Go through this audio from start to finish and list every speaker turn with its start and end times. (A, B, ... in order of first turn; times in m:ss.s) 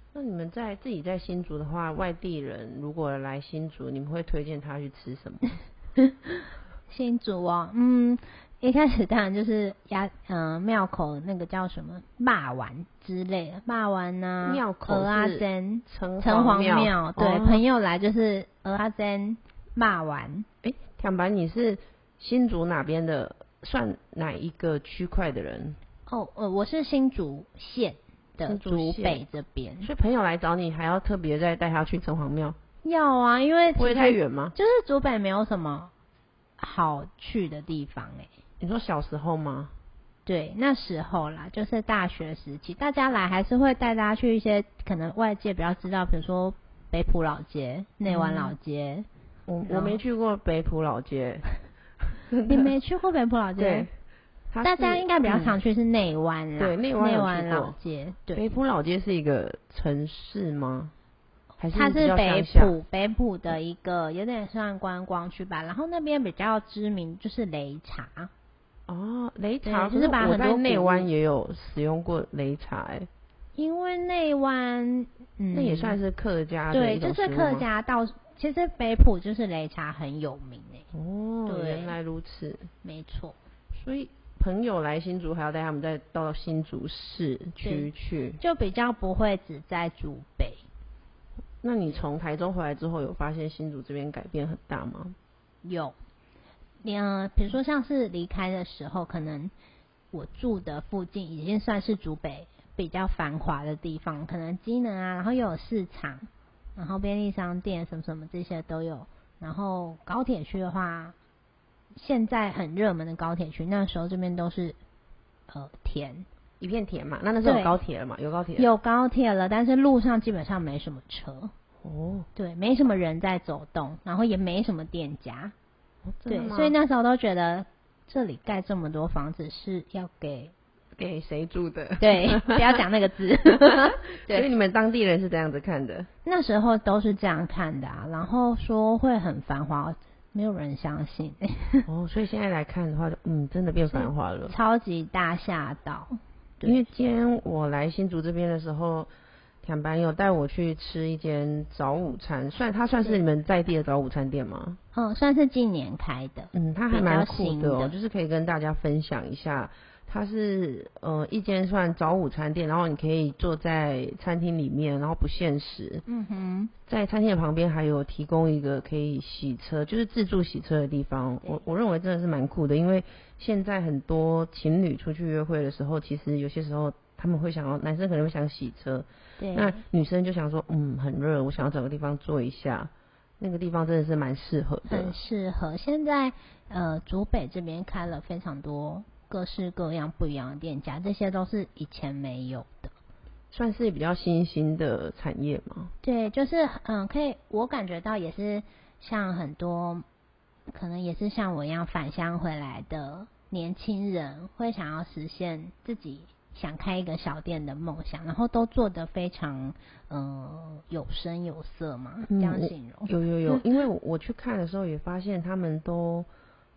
0:00.1-0:05.6 A
0:06.0-0:20.5 B
0:14.4-0:17.6 A
0:20.6-0:25.8 A
0:26.1-0:29.9 B
0:28.4-0:29.2 A
0:29.8-0:32.6 A
0:32.8-0:35.9 B
0:33.7-0:34.6 A
0:36.6-0:38.3 B
0:38.6-0:39.7 A
0:40.3-0:49.1 B
0:48.1-0:48.6 A
0:49.5-0:51.5 A
0:49.7-0:50.0 B
0:52.0-0:52.7 A
0:52.4-0:53.9 B
0:53.6-0:53.9 A
0:54.5-0:55.6 A
0:54.6-0:58.5 B
0:56.6-0:57.8 A
0:58.4-1:00.9 A
1:01.6-1:02.8 A
1:01.7-1:08.3 B
1:08.9-1:13.1 A
1:09.6-1:11.1 B
1:13.6-1:16.0 B
1:15.5-1:17.7 A
1:16.7-1:20.9 B
1:20.9-1:22.7 A
1:21.5-1:22.0 B
1:22.8-1:23.4 B
1:23.7-1:28.4 A
1:27.6-1:30.6 B
1:31.6-1:35.2 A
1:35.6-1:36.0 B
1:36.8-1:39.5 B
1:40.1-1:51.2 B
1:52.0-1:54.8 B
1:55.5-1:56.3 B
1:56.6-1:58.7 A
1:57.4-1:57.8 B
1:58.6-2:01.5 B
2:01.8-2:02.3 A
2:02.4-2:05.5 B
2:06.0-2:06.8 A
2:06.3-2:10.5 B
2:11.0-2:12.8 A
2:12.0-2:14.5 B
2:13.5-2:16.1 A
2:16.3-2:21.8 B
2:21.9-2:24.6 A
2:23.9-2:26.9 B
2:26.6-2:29.1 A
2:29.6-2:34.8 A
2:34.9-2:38.0 B
2:36.5-2:46.0 A
2:46.1-2:46.7 B
2:46.9-3:05.1 A
2:59.4-2:59.8 B
3:04.9-3:12.9 B
3:13.5-3:15.9 A
3:16.0-3:20.0 B
3:20.7-3:33.7 B
3:32.3-3:36.3 A